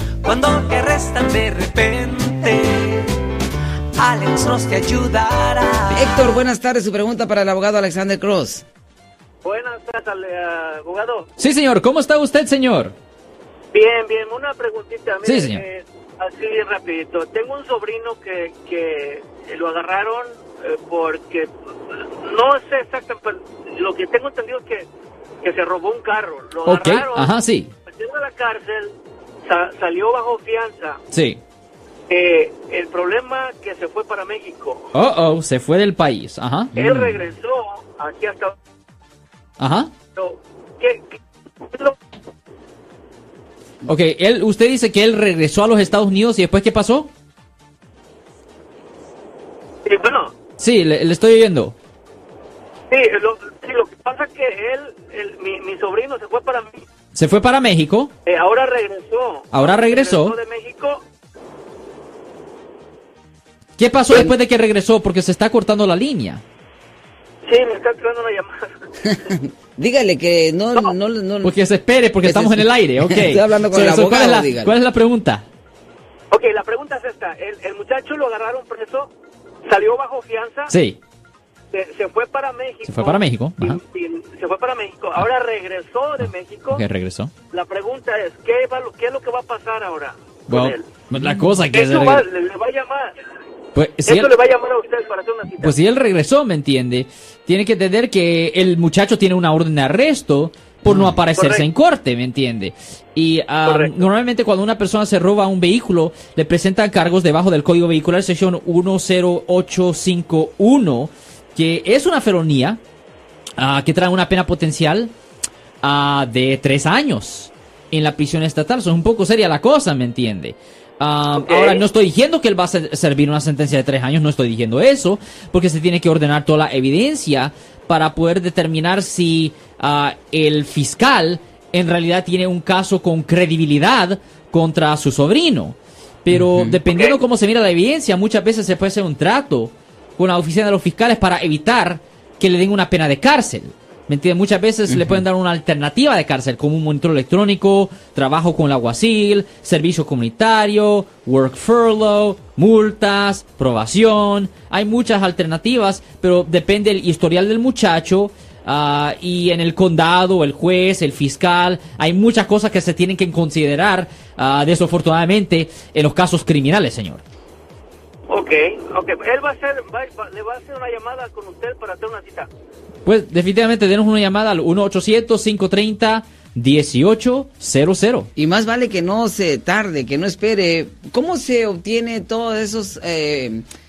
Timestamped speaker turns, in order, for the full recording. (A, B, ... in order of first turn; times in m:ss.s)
0:00.2-0:03.1 A
0:04.0-0:06.2 A
0:05.9-0:08.6 B
0:09.4-0:11.3 C
0:11.4-0:12.9 D
0:13.7-0:21.5 C
0:15.2-0:15.6 D
0:22.2-0:24.9 C
0:25.4-0:27.3 C
0:26.6-0:27.7 D
0:27.9-0:31.0 C
0:31.1-0:31.4 D
0:32.1-0:34.9 C
0:34.9-0:36.8 D
0:36.7-0:38.6 C
0:36.8-0:37.2 B
0:39.6-0:39.9 D
0:40.1-0:42.0 C
0:43.8-0:47.1 D
0:49.8-0:50.3 C
0:50.6-0:51.7 D
0:52.9-0:56.8 C
0:57.1-0:58.1 D
0:58.2-1:01.0 C
0:59.5-1:00.3 D
1:03.8-1:06.4 D
1:07.4-1:08.7 C
1:09.0-1:11.5 B
1:11.4-1:15.4 D
1:12.2-1:14.8 B
1:16.3-1:19.1 C
1:19.6-1:20.7 C
1:20.7-1:21.0 D
1:21.7-1:26.8 C
1:22.8-1:23.8 D
1:26.7-1:27.3 D
1:27.5-1:30.9 C
1:30.5-1:32.3 D
1:31.1-1:31.5 B
1:31.7-1:33.1 C
1:33.7-1:34.3 D
1:34.0-1:35.7 C
1:35.6-1:52.8 D
1:40.8-1:41.2 B
1:41.4-1:41.6 C
1:43.6-1:44.0 C
1:53.6-1:55.1 D
1:55.8-2:47.2 D
2:01.3-2:01.8 C
2:16.3-2:16.8 B
2:16.9-2:17.2 C
2:24.9-2:25.2 B
2:48.3-2:52.5 C
2:53.0-2:58.3 D
2:58.4-3:03.6 B